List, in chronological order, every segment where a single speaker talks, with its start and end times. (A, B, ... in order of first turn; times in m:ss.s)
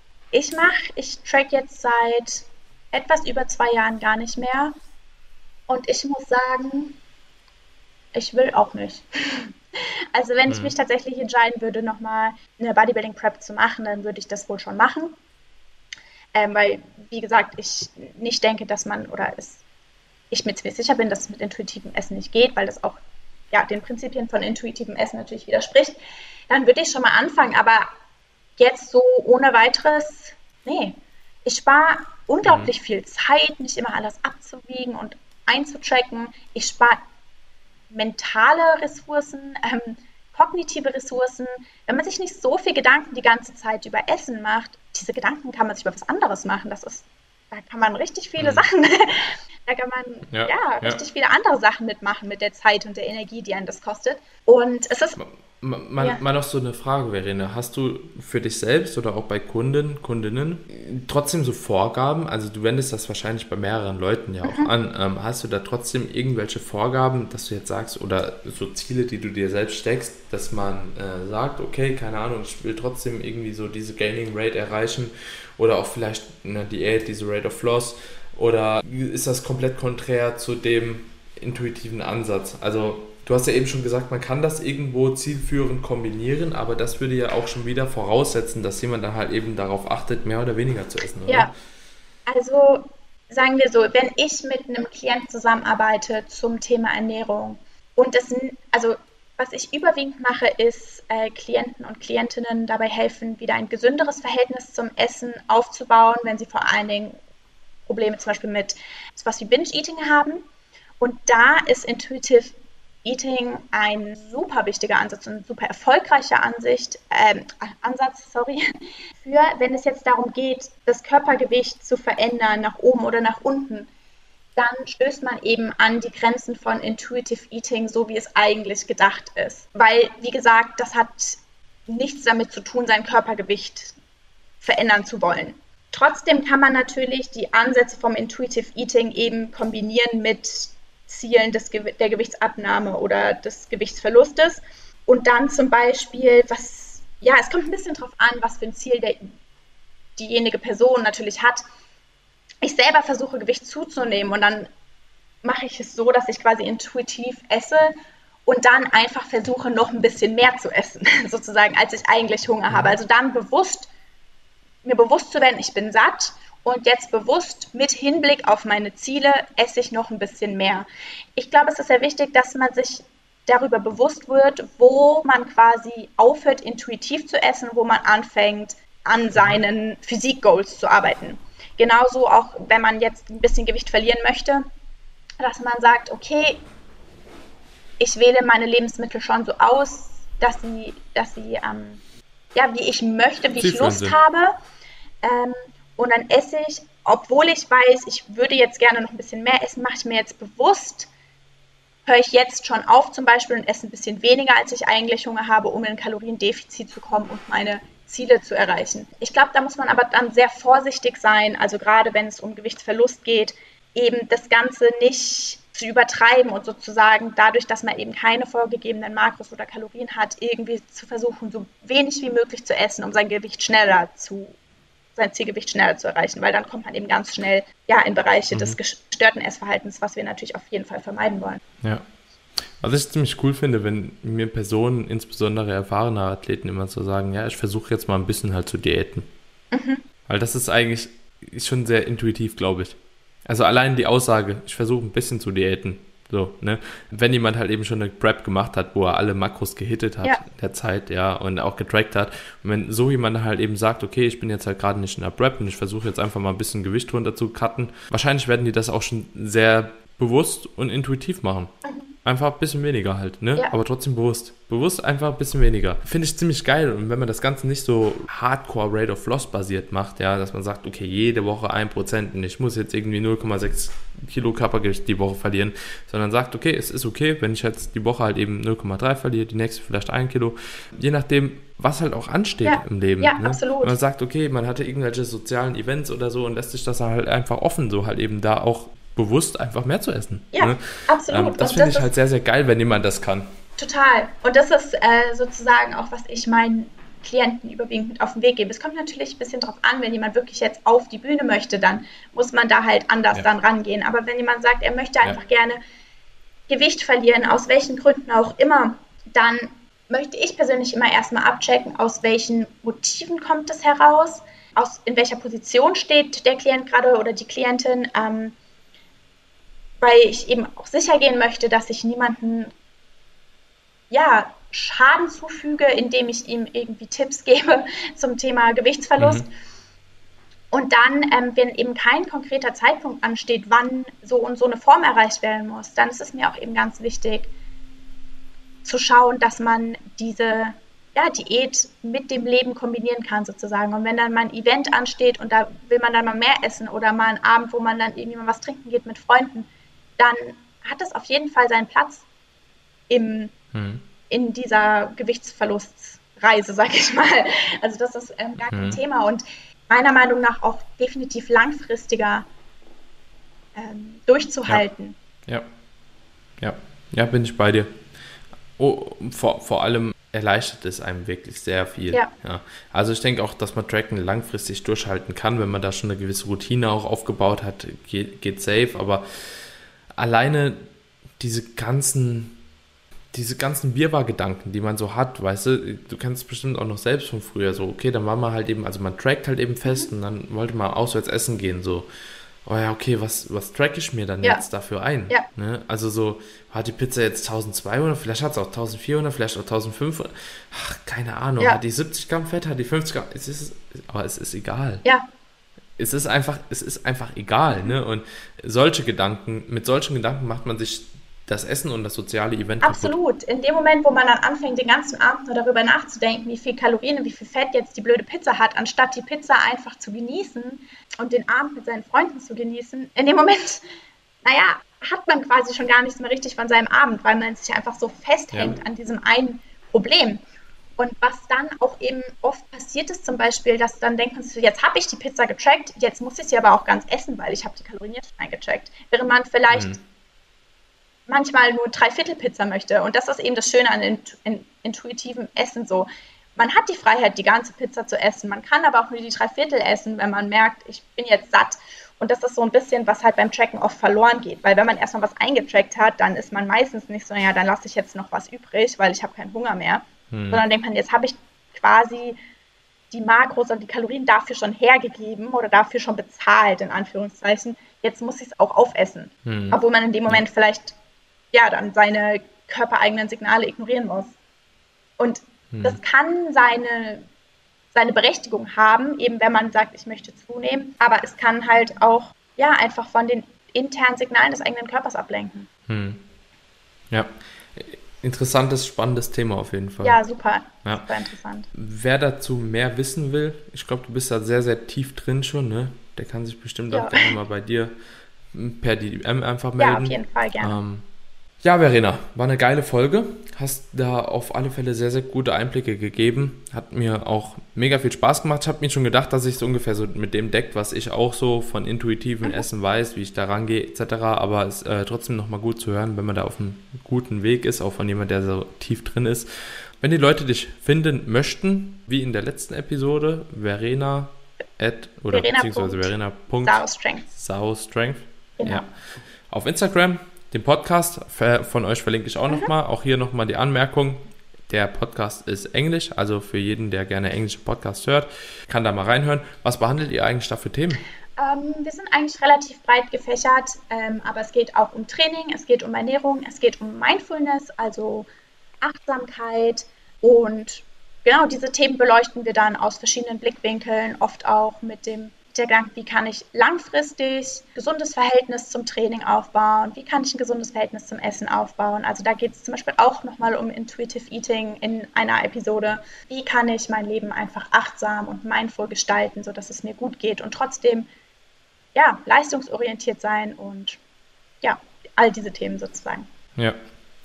0:00.3-0:04.7 A
0:05.7-0:07.0 A
0:08.1-0:09.6 A
0:10.1-0:15.2 A
0:10.5-0:10.7 B
0:16.3-0:19.6 A
0:20.3-0:23.0 A
0:23.5-0:27.9 A
0:28.6-0:37.0 A
0:32.4-0:32.7 B
0:37.9-0:55.2 A
0:48.4-0:48.7 B
0:50.3-0:51.0 B
0:55.2-1:31.5 B
1:04.4-1:04.7 A
1:32.2-1:47.2 A
1:47.9-1:50.4 A
1:51.0-2:03.9 A
2:04.6-2:14.0 A
2:14.6-2:29.3 A
2:30.2-2:31.6 A
2:32.6-2:34.7 A
2:35.4-2:37.9 A
2:38.4-2:43.9 A
2:42.7-2:43.0 B
2:44.8-3:04.6 A
2:59.4-2:59.6 B
3:05.4-3:06.6 A
3:08.0-3:12.0 A
3:12.6-3:14.6 A
3:13.6-3:14.2 B
3:15.2-3:21.1 A
3:22.1-3:44.6 A
3:45.2-3:51.6 A
3:48.5-3:48.8 B
3:52.8-3:59.3 B
3:59.7-4:00.0 A
4:00.3-4:53.5 B
4:21.8-4:22.1 A
4:42.6-4:44.0 A
4:50.5-4:52.1 A
4:53.8-5:05.8 A
5:06.7-5:18.6 A
5:20.0-5:22.7 A
5:24.1-5:29.4 A
5:29.2-5:29.4 B
5:30.7-5:37.5 A
5:38.8-5:52.2 A
5:53.1-5:53.5 A
5:53.7-5:54.0 B
5:54.3-6:02.5 A
5:58.7-5:59.0 B
6:03.7-6:05.2 A
6:06.6-6:08.0 B
6:08.8-6:20.9 B
6:21.4-6:22.6 B
6:23.3-6:32.1 B
6:32.6-6:45.0 B
6:46.0-6:53.1 B
6:52.8-7:03.8 A
7:04.4-7:10.4 A
7:08.5-7:08.8 B
7:11.0-7:20.0 A
7:19.7-7:20.0 B
7:21.3-7:42.4 A
7:40.3-7:40.6 B
7:43.1-7:50.9 A
7:49.4-7:50.4 B
7:51.5-7:54.3 A
7:55.2-7:57.3 A
7:55.7-7:56.0 B
7:57.9-8:05.7 A
8:05.9-8:06.2 B
8:07.1-8:10.2 B
8:10.0-8:11.7 A
8:10.8-8:11.1 B
8:11.7-8:17.9 B
8:16.9-8:17.4 A
8:18.5-8:21.1 B
8:19.8-8:20.7 A
8:21.6-8:39.5 B
8:40.0-8:48.9 B
8:45.3-8:47.2 A
8:48.6-8:48.8 A
8:49.5-9:01.0 B
9:01.4-9:08.3 A
9:08.8-9:31.1 A
9:31.9-9:34.0 A
9:34.6-9:36.3 A